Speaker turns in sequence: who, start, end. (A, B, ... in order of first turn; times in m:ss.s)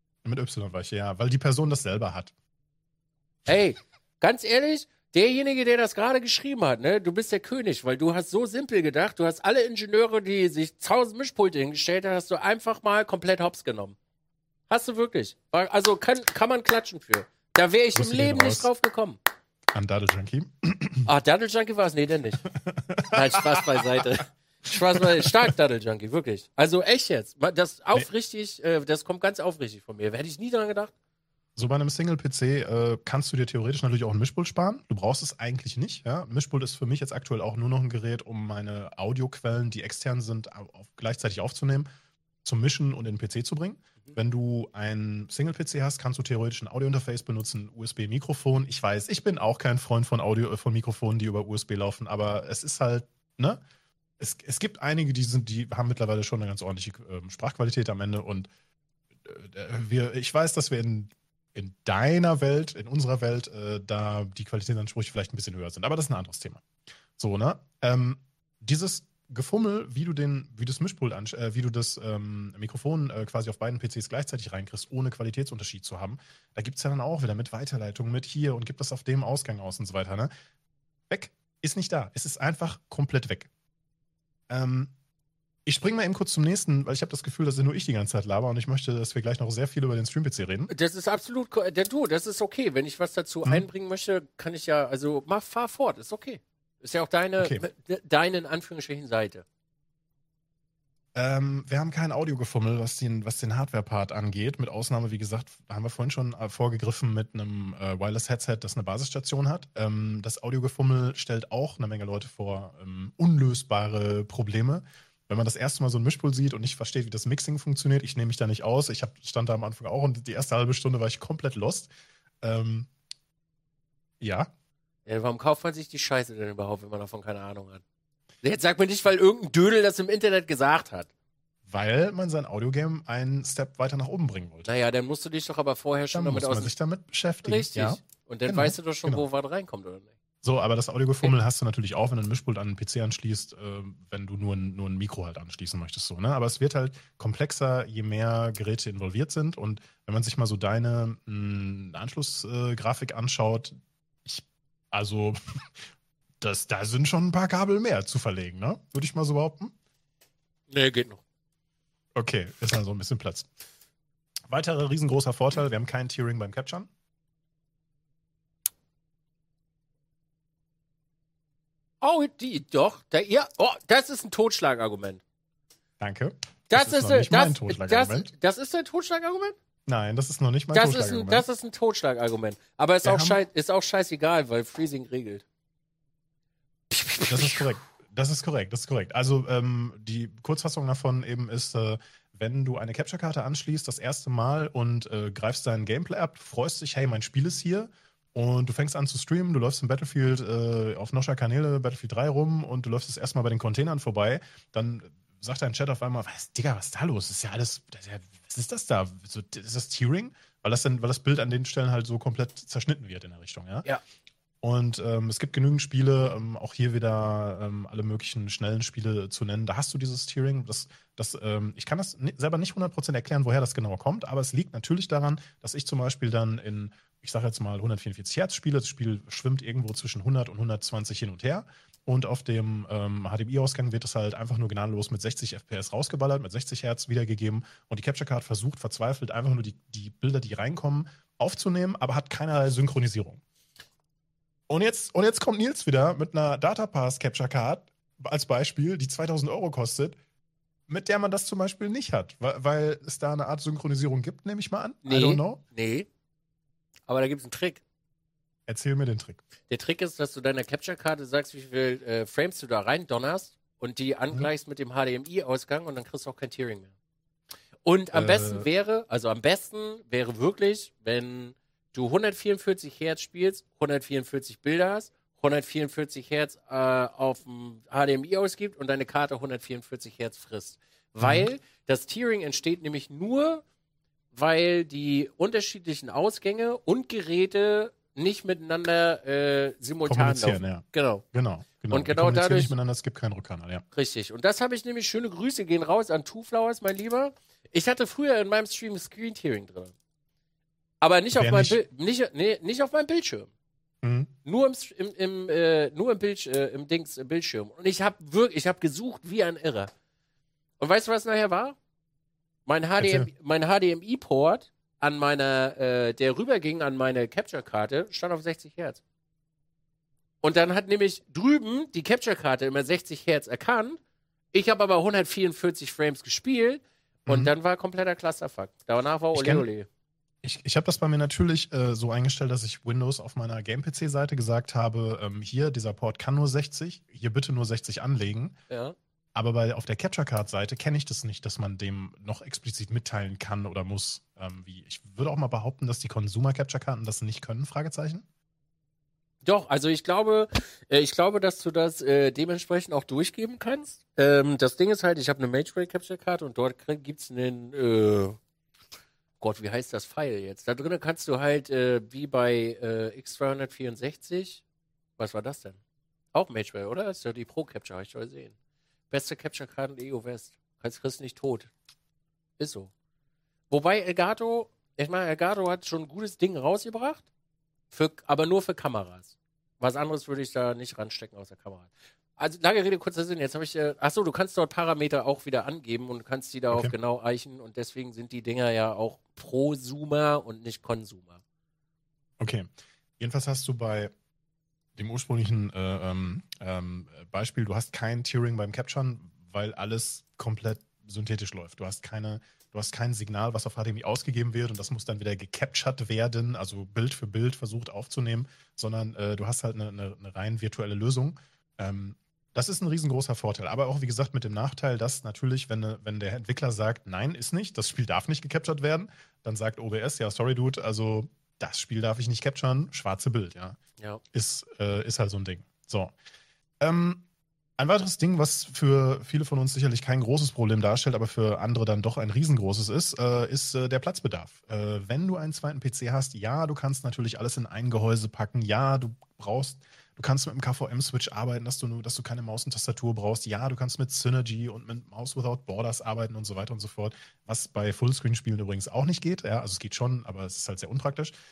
0:00.2-0:02.3 A
0:03.5-0:14.0 B
0:14.7-0:19.2 B
0:18.0-0:18.7 A
0:19.7-0:21.1 A
0:21.1-0:22.5 B
0:22.6-0:24.0 A
0:23.1-0:30.9 B
0:25.0-0:25.5 A
0:31.6-0:41.9 A
0:42.4-0:53.6 A
0:54.2-0:58.5 A
0:59.2-1:06.7 A
1:07.2-1:20.3 A
1:21.1-1:23.5 A
1:24.5-1:24.9 A
1:25.7-1:30.7 A
1:30.7-1:39.4 B
1:37.4-1:37.6 A
1:41.2-2:01.9 A
2:02.4-2:02.9 A
2:04.2-2:04.5 A
2:05.1-2:07.8 B
2:08.4-2:11.1 B
2:11.7-2:14.7 A
2:14.7-2:16.7 B
2:16.1-2:19.3 A
2:17.4-2:20.1 B
2:20.4-2:35.6 A
2:36.4-2:39.7 A
2:40.7-2:41.2 B
2:42.2-2:43.5 A
2:44.5-2:46.9 A
2:52.0-2:55.2 B
2:56.0-2:58.3 A
2:56.7-2:59.6 B
2:59.9-3:01.5 A
3:00.7-3:05.4 B
3:03.0-3:03.4 A
3:06.9-3:07.7 B
3:07.3-3:33.9 A
3:34.6-4:03.4 A
4:04.7-4:10.2 A
4:10.9-4:15.6 A
4:15.0-4:16.1 B
4:17.1-4:17.8 B
4:18.7-4:19.4 A
4:19.7-4:26.9 B
4:27.8-4:43.6 B
4:28.1-4:28.7 A
4:41.2-4:41.5 A
4:44.3-4:51.2 B
4:50.1-4:53.8 A
4:51.9-4:52.7 B
4:53.9-4:59.9 B
5:01.0-5:03.5 B
5:01.4-5:01.8 A
5:04.0-5:04.3 A
5:04.4-5:09.9 B
5:10.8-5:11.8 B
5:12.7-5:19.0 B
5:13.0-5:13.3 A
5:20.4-5:24.0 B
5:24.5-5:29.9 B
5:27.3-5:27.5 A
5:29.3-5:29.6 A
5:30.4-5:38.6 A
5:38.7-5:39.0 B
5:39.4-5:48.2 A
5:49.4-5:58.4 B
5:59.4-6:04.6 B
6:05.2-6:05.8 B
6:06.3-6:08.5 B
6:09.1-6:11.7 B
6:12.6-6:12.9 B
6:13.7-6:17.2 B
6:17.9-6:31.4 B
6:32.4-6:34.1 A
6:35.0-7:03.8 A
7:04.3-7:06.1 A
7:06.8-7:07.2 A
7:07.8-7:31.3 A